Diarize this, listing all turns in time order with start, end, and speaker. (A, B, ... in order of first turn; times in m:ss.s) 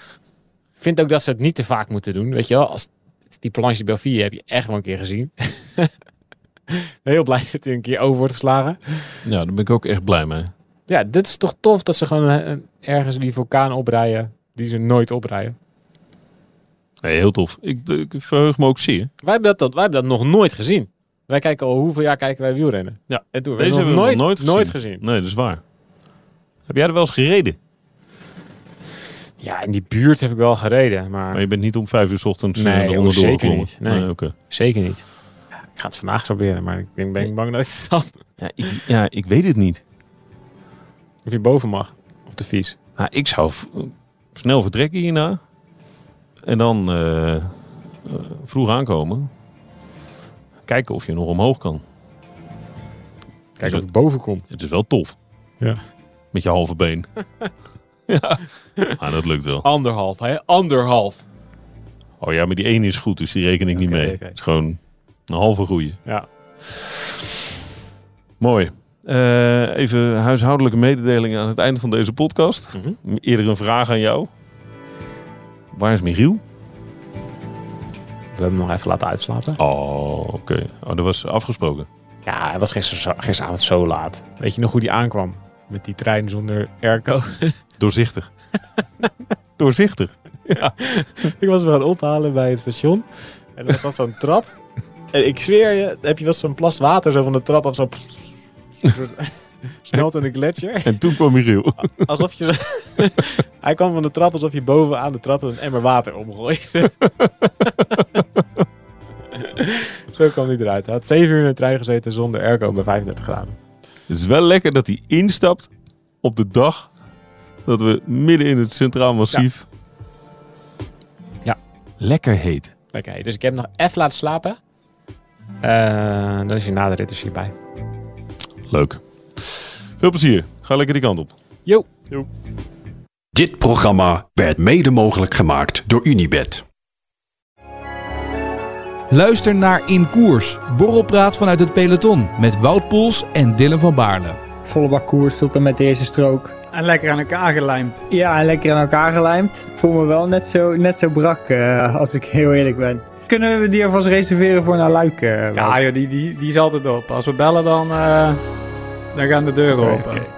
0:00.8-0:05.9 A
0:06.7-0:09.2 A
0:09.2-0:10.5 B
0:10.9-0:15.6 A
0:17.0-0:19.1 B
0:19.2-0:25.0 A
0:23.1-0:25.6 B
0:26.7-0:27.6 B
0:29.4-0:31.4 A
0:31.3-0:34.3 B
0:32.5-0:35.0 A
0:35.7-0:38.2 A
0:38.4-0:39.8 B
0:41.2-0:42.8 A
0:43.0-0:45.4 B
0:46.4-0:47.5 B
0:48.0-0:49.3 B
0:50.6-0:51.8 B
0:53.6-0:54.4 A
0:54.5-0:55.2 B
0:56.3-0:57.1 B
0:58.1-0:58.4 B
0:59.0-0:59.6 B
0:59.6-1:01.2 A
1:02.2-1:06.0 B
1:03.7-1:04.4 A
1:08.4-1:14.3 B
1:15.7-1:16.4 B
1:18.3-1:19.6 A
1:19.6-1:21.9 B
1:22.2-1:27.6 A
1:27.8-1:28.3 B
1:29.6-1:30.7 B
1:30.5-1:34.6 A
1:35.1-1:38.3 A
1:38.8-1:41.0 A
1:40.8-1:42.1 B
1:41.9-1:47.1 A
1:47.6-1:48.2 A
1:49.3-1:53.6 A
1:54.1-1:55.7 B
1:56.2-1:56.9 B
1:57.6-1:59.6 B
2:02.0-2:02.7 B
2:02.9-2:04.6 A
2:05.6-2:07.5 A
2:08.7-2:11.3 B
2:13.3-2:16.6 C
2:19.1-2:24.4 D
2:24.6-2:35.8 E
2:26.7-2:28.0 F
2:35.6-2:38.4 F
2:39.1-2:40.3 F
2:39.8-2:40.2 E